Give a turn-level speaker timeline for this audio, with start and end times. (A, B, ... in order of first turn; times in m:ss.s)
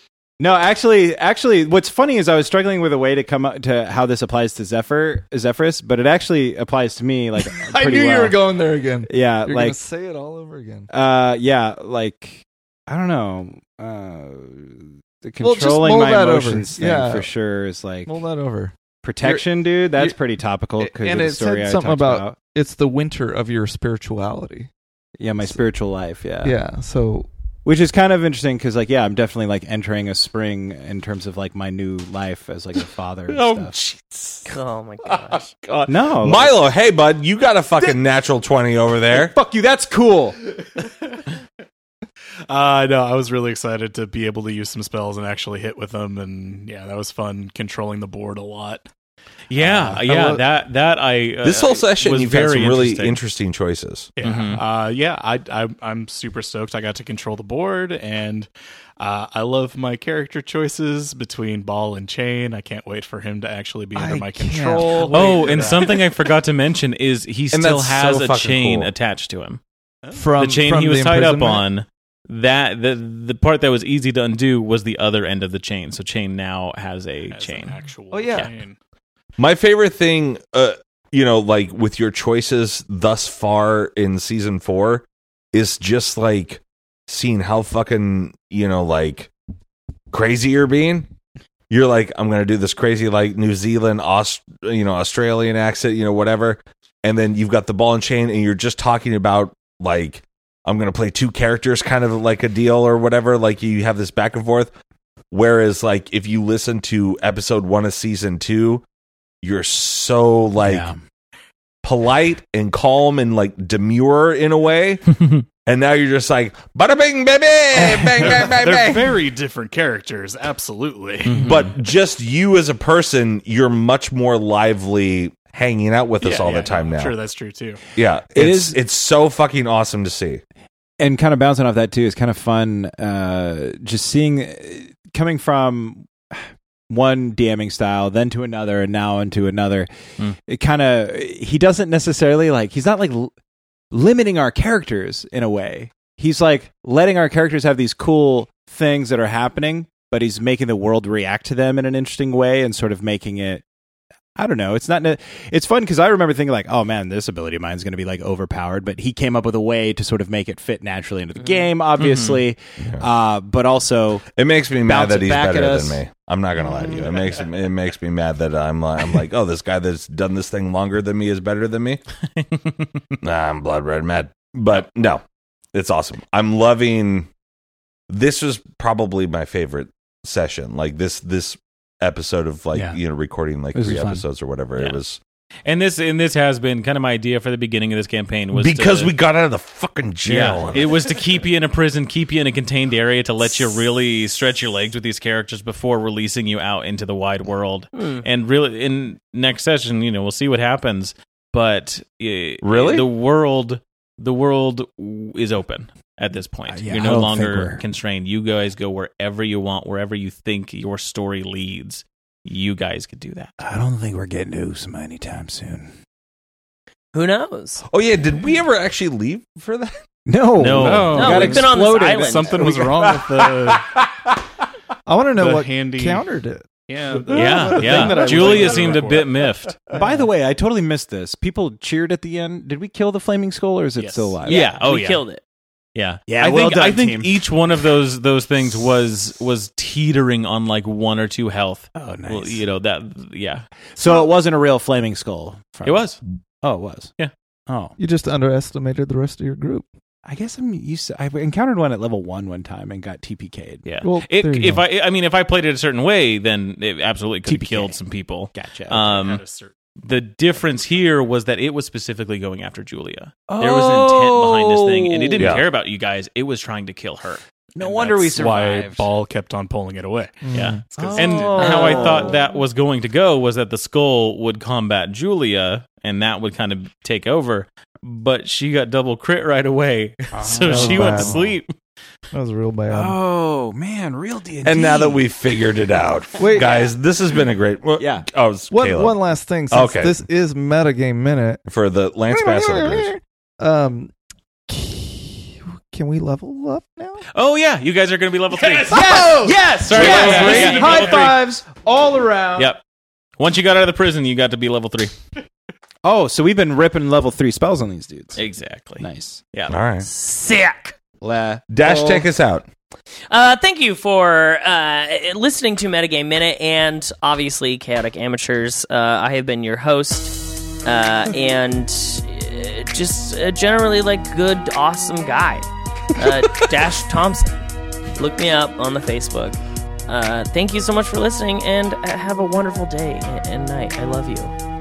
0:00.4-0:08.4 A
0:07.4-0:10.9 B
0:09.1-0:09.8 A
0:10.9-0:18.1 A
0:15.4-0:17.3 B
0:18.1-0:20.2 B
0:19.0-0:22.4 A
0:20.8-0:24.7 B
0:25.2-0:26.6 A
0:26.4-0:27.3 B
0:27.6-0:33.8 A
0:33.4-0:34.4 C
0:34.4-0:35.5 D
0:35.0-0:39.3 C
0:35.9-0:36.6 A
0:39.1-0:40.4 A
0:40.6-0:41.1 E
0:42.5-0:48.8 E
0:49.5-0:53.2 F
0:49.6-0:50.0 A
0:50.0-0:50.4 B
0:51.4-0:54.1 C
0:54.2-1:06.3 E
0:54.2-0:54.6 F
1:03.9-1:05.8 B
1:05.0-1:09.6 F
1:07.5-1:08.9 C
1:10.1-1:11.6 B
1:10.4-1:17.8 F
1:17.3-1:18.8 E
1:18.1-1:18.5 B
1:19.4-1:29.3 C
1:30.1-1:31.1 C
1:31.7-1:44.7 C
1:45.3-1:48.8 C
1:49.4-1:50.9 C
1:50.6-1:51.0 A
1:51.8-1:59.2 C
1:57.7-2:01.4 E
1:58.2-1:58.5 A
2:01.2-2:01.7 F
2:01.4-2:07.1 C
2:06.2-2:07.8 E
2:07.9-2:10.4 C
2:08.3-2:08.8 A
2:11.0-2:19.9 A
2:20.5-2:23.3 A
2:23.9-2:33.6 A
2:34.4-2:44.2 A
2:41.4-2:41.7 D
2:42.0-2:42.4 F
2:44.3-2:52.0 C
2:44.8-2:46.0 A
2:52.4-2:53.1 F
2:53.2-2:57.3 C
2:58.1-3:05.2 C
3:02.7-3:03.0 A
3:03.7-3:04.2 A
3:05.6-3:09.2 F
3:08.5-3:11.0 C
3:10.2-3:33.5 F
3:17.9-3:18.2 D
3:22.6-3:23.1 C
3:26.7-3:27.8 A
3:33.6-3:35.9 A
3:37.1-3:37.8 D
3:37.9-3:40.0 C
3:40.2-3:42.9 A
3:40.6-3:41.6 F
3:40.9-3:43.8 E
3:41.1-3:42.6 D
3:42.9-3:44.2 C
3:45.0-3:46.7 B
3:45.4-3:46.2 E
3:46.9-3:50.3 E
3:47.3-3:49.8 F
3:47.3-3:48.3 B
3:49.9-3:54.6 A
3:54.0-3:54.4 E
3:54.4-3:55.4 D
3:54.4-3:55.2 F
3:55.9-4:03.6 F
3:56.3-3:57.4 A
4:01.9-4:02.6 A
4:04.0-4:06.1 A
4:05.8-4:06.2 F
4:06.6-4:07.1 A
4:07.7-4:07.9 A
4:08.0-4:09.9 B
4:10.2-4:13.8 A
4:13.8-4:19.4 F
4:14.0-4:14.8 B
4:17.4-4:18.0 A
4:18.5-4:19.1 A
4:19.0-4:19.8 E
4:20.0-4:28.3 F
4:23.5-4:25.6 A
4:25.4-4:25.6 C
4:27.8-4:29.1 A
4:28.2-4:31.5 E
4:30.4-4:30.8 B
4:30.5-4:41.7 F
4:31.0-4:32.4 A
4:31.5-4:32.4 D
4:40.3-4:41.6 A
4:40.6-4:41.4 B
4:42.3-4:43.2 B
4:42.9-4:45.3 A
4:44.6-4:49.2 C
4:46.4-4:46.8 B
4:48.0-4:48.2 A
4:48.7-4:51.6 B
4:49.7-4:50.2 C
4:51.7-4:53.1 C
4:52.3-4:54.1 B
4:54.7-4:57.2 B
4:57.3-5:01.4 F
4:58.8-5:02.7 A
4:58.9-5:01.0 B
4:59.9-5:01.1 C
5:02.6-5:02.8 F
5:03.4-5:05.1 F
5:06.0-5:08.4 A
5:08.4-5:09.8 F
5:09.0-5:09.4 A
5:09.7-5:10.1 C
5:10.0-5:11.0 D
5:11.2-5:12.3 A
5:11.7-5:12.7 C
5:13.3-5:27.6 D
5:28.2-5:34.6 D